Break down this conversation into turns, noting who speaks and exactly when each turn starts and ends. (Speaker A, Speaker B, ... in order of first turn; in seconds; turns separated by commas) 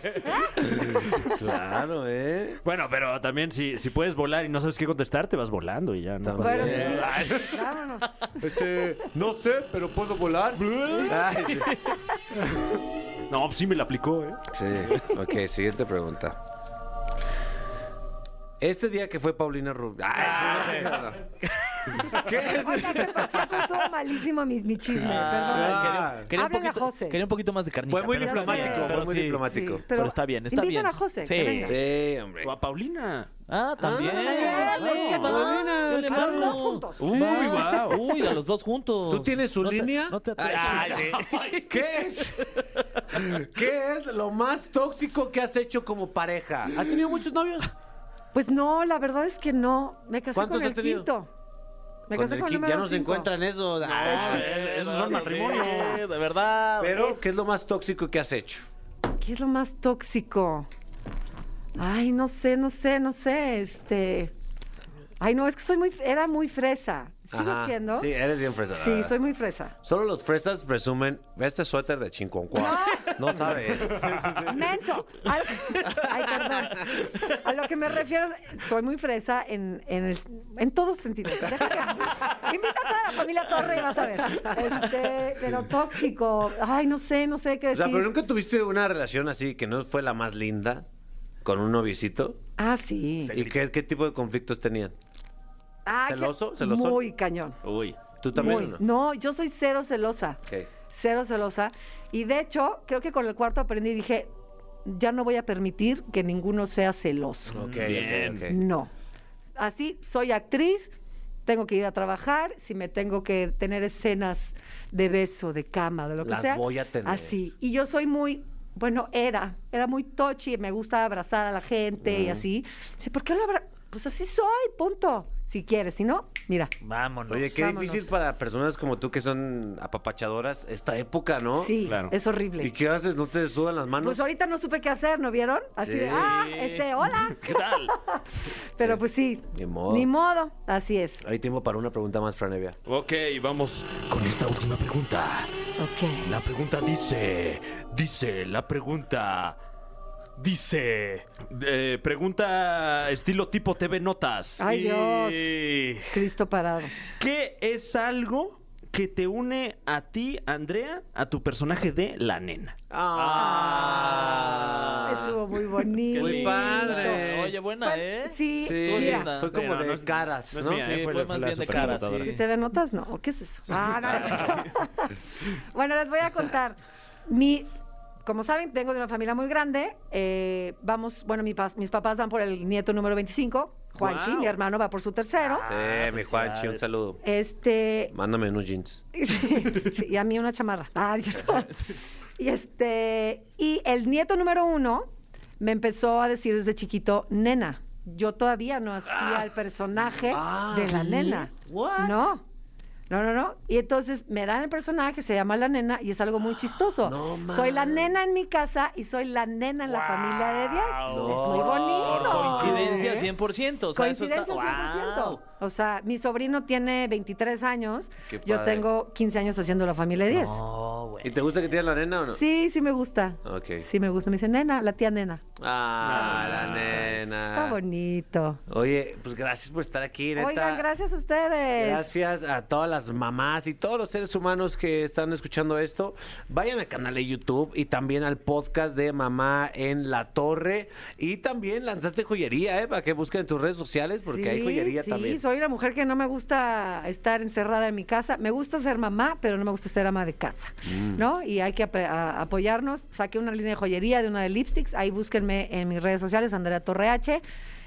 Speaker A: 0.2-1.3, Speaker B: 0.6-2.6, Speaker C: 2.6-7.6, Speaker B: 6.2-7.2, Speaker A: 6.4-8.4, Speaker B: 8.4-11.8, Speaker C: 10.6-11.8, Speaker C: 13.3-14.4, Speaker B: 14.5-16.4, Speaker B: 18.6-21.2, Speaker D: 20.2-21.0, Speaker A: 21.9-27.2, Speaker B: 22.0-23.6, Speaker D: 25.0-31.8, Speaker B: 25.4-26.3, Speaker B: 27.9-29.8, Speaker A: 28.1-31.8, Speaker B: 31.6-32.5, Speaker C: 32.4-33.3, Speaker D: 33.5-41.6, Speaker B: 33.8-38.0, Speaker A: 33.9-37.1, Speaker C: 34.8-35.4, Speaker C: 37.0-38.0, Speaker B: 39.1-42.4, Speaker B: 43.1-47.7, Speaker A: 48.3-51.3, Speaker B: 50.3-51.1, Speaker A: 52.1-53.3, Speaker B: 52.1-54.6, Speaker C: 53.9-56.0, Speaker D: 53.9-57.0, Speaker B: 55.1-55.7, Speaker B: 56.8-58.6, Speaker A: 56.9-57.2, Speaker A: 59.2-60.7, Speaker A: 61.8-64.3, Speaker A: 65.2-68.1, Speaker B: 67.3-69.1, Speaker A: 68.7-69.7, Speaker B: 69.8-74.7, Speaker A: 72.5-73.3, Speaker A: 74.3-88.1, Speaker B: 84.3-84.8, Speaker B: 87.7-90.8, Speaker B: 91.4-92.4, Speaker A: 92.6-93.3, Speaker D: 93.2-93.5, Speaker B: 93.3-94.9, Speaker A: 95.8-97.6, Speaker B: 96.0-97.0, Speaker C: 97.6-98.0, Speaker B: 98.2-98.8, Speaker A: 98.3-104.3, Speaker A: 104.8-107.7, Speaker B: 107.5-108.6, Speaker C: 107.7-108.5, Speaker A: 108.5-108.9, Speaker A: 109.6-110.9, Speaker A: 111.5-126.7, Speaker B: 116.2-117.4, Speaker B: 122.0-122.4, Speaker D: 126.8-127.5, Speaker B: 127.3-131.8, Speaker A: 127.5-128.1, Speaker A: 131.6-132.7, Speaker C: 131.8-132.1, Speaker B: 132.6-134.2, Speaker A: 134.0-138.2, Speaker B: 135.8-136.3, Speaker C: 136.3-137.9, Speaker A: 138.8-141.2, Speaker B: 139.5-140.1, Speaker B: 141.2-142.8, Speaker C: 142.9-145.5, Speaker A: 145.8-146.4, Speaker C: 146.2-149.6, Speaker C: 150.4-156.1, Speaker A: 154.6-156.9, Speaker C: 157.2-162.8, Speaker B: 162.9-165.3, Speaker D: 163.2-165.2, Speaker A: 163.4-164.2, Speaker A: 165.0-167.2, Speaker B: 166.1-167.5, Speaker D: 166.1-169.6, Speaker A: 167.8-169.3, Speaker B: 168.6-170.9, Speaker C: 169.5-172.4, Speaker D: 170.7-172.4, Speaker A: 171.7-177.7, Speaker C: 173.8-174.7, Speaker A: 178.2-185.7, Speaker C: 184.0-184.6, Speaker D: 185.4-186.9, Speaker B: 185.7-187.2, Speaker A: 187.2-188.1, Speaker B: 188.1-189.0, Speaker A: 189.1-191.8, Speaker A: 192.4-202.4, Speaker B: 200.2-202.3, Speaker A: 203.1-213.3, Speaker B: 207.0-208.2, Speaker D: 209.8-215.4, Speaker C: 211.1-212.8, Speaker B: 211.2-213.0, Speaker A: 213.9-220.6, Speaker B: 218.3-218.9, Speaker D: 220.3-221.4, Speaker B: 221.2-222.4, Speaker A: 222.3-225.4, Speaker B: 223.4-223.9, Speaker B: 225.6-227.8, Speaker C: 226.0-227.1, Speaker A: 227.4-228.6, Speaker B: 228.7-230.8, Speaker A: 230.3-232.1, Speaker B: 231.8-245.4, Speaker A: 244.2-257.4, Speaker B: 250.8-251.2